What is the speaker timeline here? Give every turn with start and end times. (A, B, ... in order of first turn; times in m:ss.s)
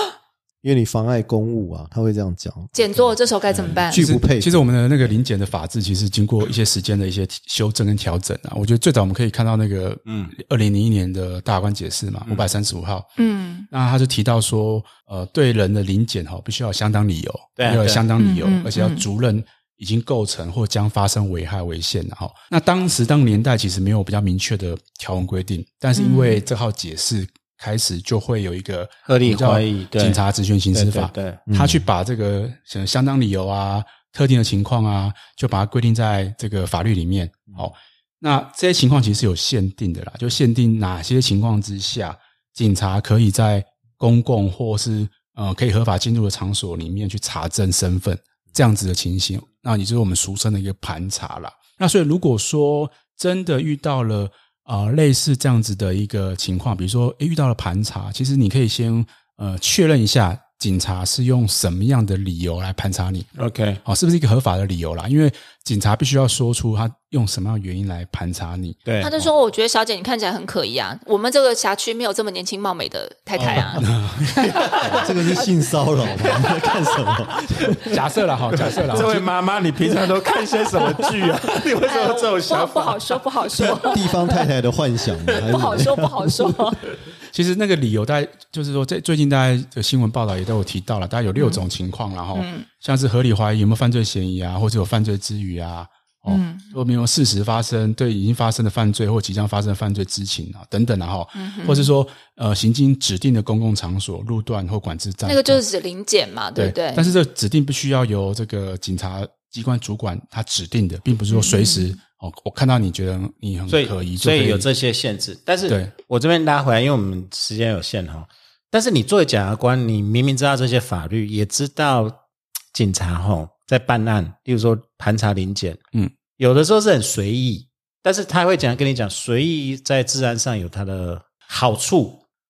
0:00.6-0:03.1 A
0:02.7-0:04.1 B
0:03.7-0:04.6 A
0:03.9-0:13.1 C
0:10.1-0:10.3 D
0:13.2-0:13.7 B
0:13.7-1:03.3 C
0:17.6-0:18.0 D
0:18.2-0:19.0 B
0:26.0-0:26.4 B
0:29.1-0:30.2 D
0:30.7-0:31.5 D
0:31.5-0:31.8 A
1:03.4-1:03.8 D
1:03.8-1:09.2 C
1:08.9-1:09.1 D
1:09.0-1:15.5 B
1:13.4-1:14.3 C
1:14.6-1:15.1 D
1:14.7-1:18.0 A
1:16.1-1:16.6 B
1:16.4-1:16.7 D
1:17.6-1:17.9 D
1:17.8-1:19.3 C
1:18.5-1:24.0 D
1:21.8-1:24.3 B
1:23.6-1:26.7 A
1:25.3-1:26.8 B
1:27.3-1:45.6 C
1:31.4-1:31.6 B
1:32.3-1:32.7 B
1:36.3-1:36.8 B
1:41.4-1:41.9 B
1:45.2-1:47.1 B
1:46.6-1:54.7 C
1:51.3-1:51.9 B
1:53.7-2:02.2 D
2:02.7-2:05.8 D
2:06.4-2:12.2 D